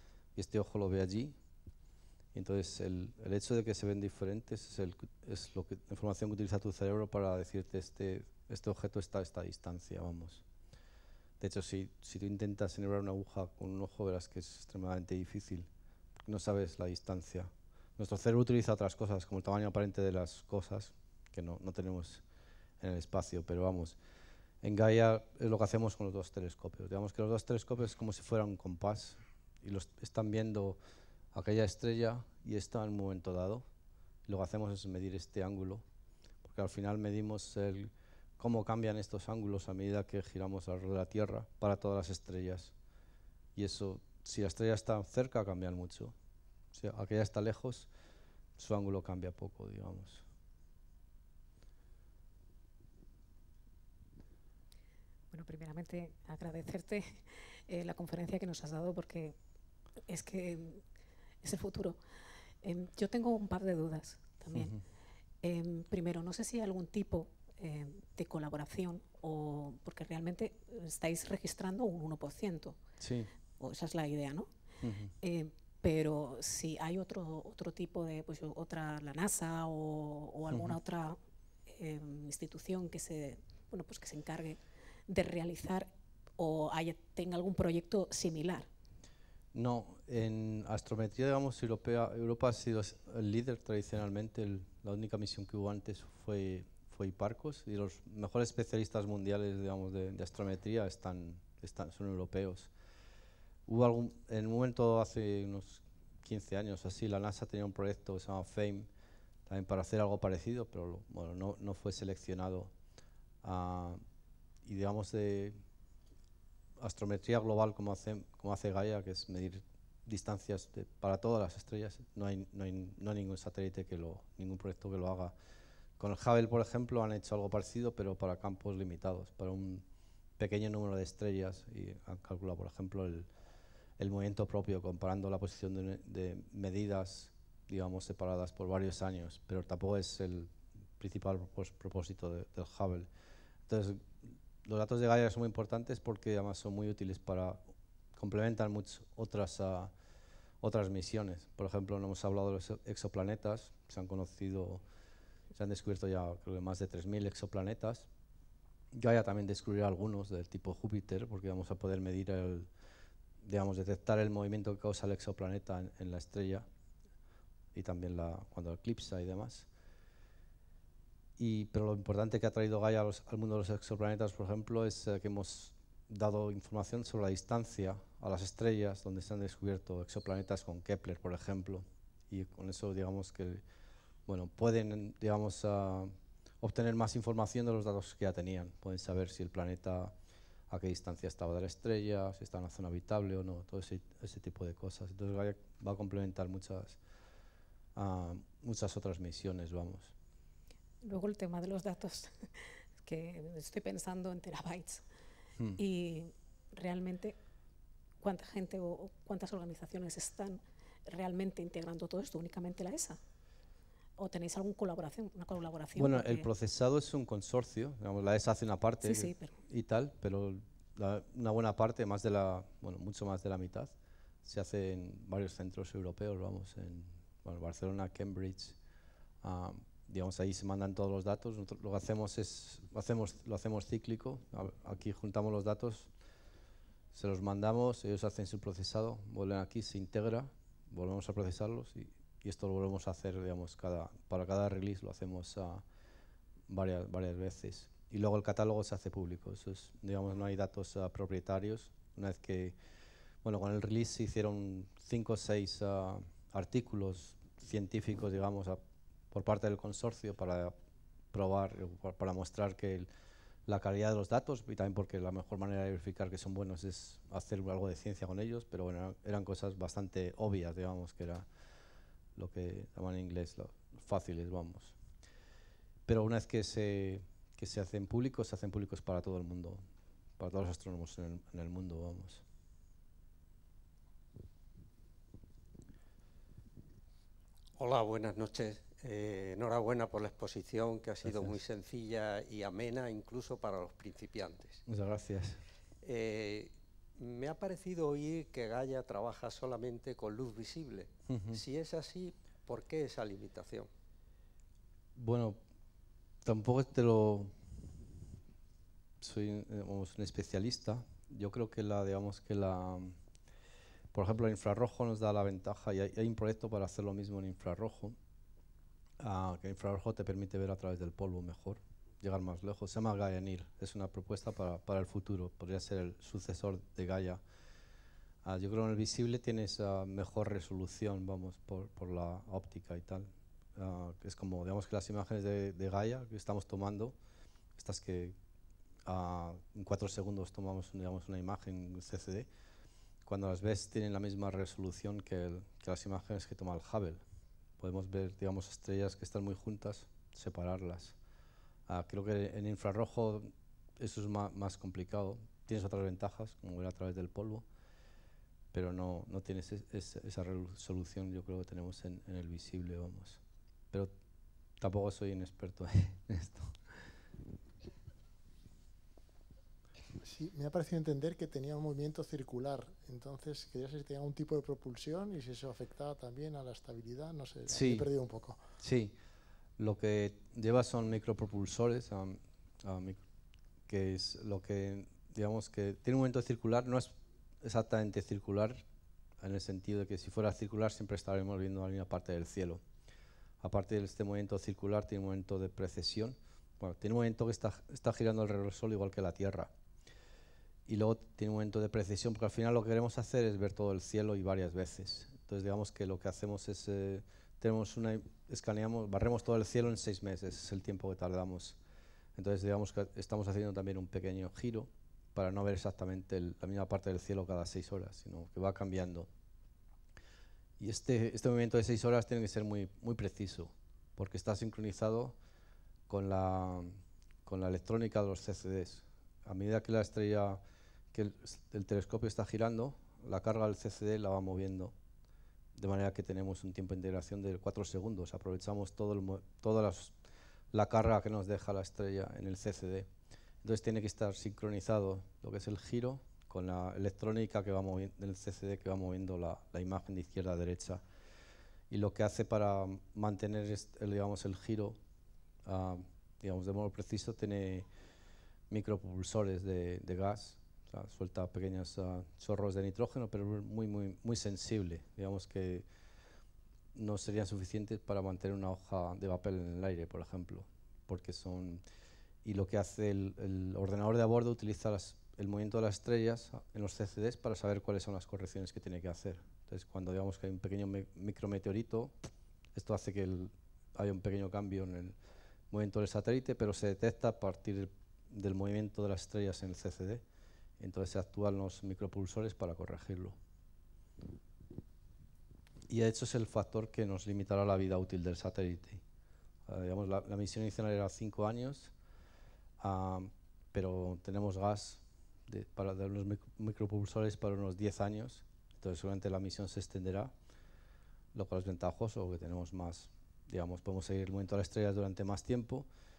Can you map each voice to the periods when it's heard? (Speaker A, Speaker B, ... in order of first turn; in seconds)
Speaker A: 0.4-1.4, 2.3-10.4, 11.4-15.7, 16.2-22.2, 22.8-24.0, 24.6-30.8, 31.3-33.6, 34.3-35.8, 36.4-42.7, 43.6-46.1, 46.7-47.9, 48.6-50.2, 64.5-64.8, 73.0-73.3, 74.8-75.1, 80.5-80.8, 89.5-102.7, 103.7-108.9, 109.5-112.7, 113.4-114.0, 114.6-115.6, 116.8-125.3, 126.0-129.8, 130.4-133.3, 134.0-143.1, 143.7-147.6, 148.2-149.9, 150.6-154.8, 155.6-158.1, 158.9-162.7, 163.4-166.7, 167.8-169.7, 171.4-183.6, 184.3-190.1, 190.7-197.0, 198.0-200.1, 215.9-223.9, 224.4-228.8, 229.4-236.1, 237.1-245.8, 246.7-252.8, 253.4-258.8, 259.3-260.7, 261.3-263.1, 263.7-271.5, 272.4-275.0, 276.1-279.8, 280.4-282.4, 291.2-291.6, 294.9-295.6, 301.3-301.6, 305.2-305.6, 306.4-307.5, 309.2-313.2, 314.1-318.2, 319.2-327.4, 328.4-337.1, 337.8-338.4, 339.1-342.5, 343.3-347.2, 347.8-351.1, 351.9-357.6, 358.7-363.4, 364.8-366.8, 377.7-378.1, 378.8-379.2, 379.8-383.2, 383.9-388.8, 389.4-392.8, 393.6-399.7, 400.9-411.8, 412.4-419.3, 420.8-425.4, 426.1-430.6, 431.1-434.9, 435.8-440.1, 440.7-443.1, 443.6-451.0, 451.9-455.0, 455.6-457.9, 458.7-465.9, 466.9-471.8, 472.4-482.1, 482.8-485.2, 485.7-490.2, 490.8-493.4, 495.9-499.0, 499.7-501.9, 502.8-510.3, 511.3-515.9
Speaker B: 55.3-59.4, 60.1-60.8, 61.4-62.0, 62.6-64.8, 65.4-72.8, 73.6-74.5, 75.2-88.7, 201.0-205.0, 205.8-207.4, 208.2-213.2, 214.2-216.5, 219.0-219.5
Speaker C: 287.8-294.8, 296.0-303.9
Speaker D: 370.2-378.6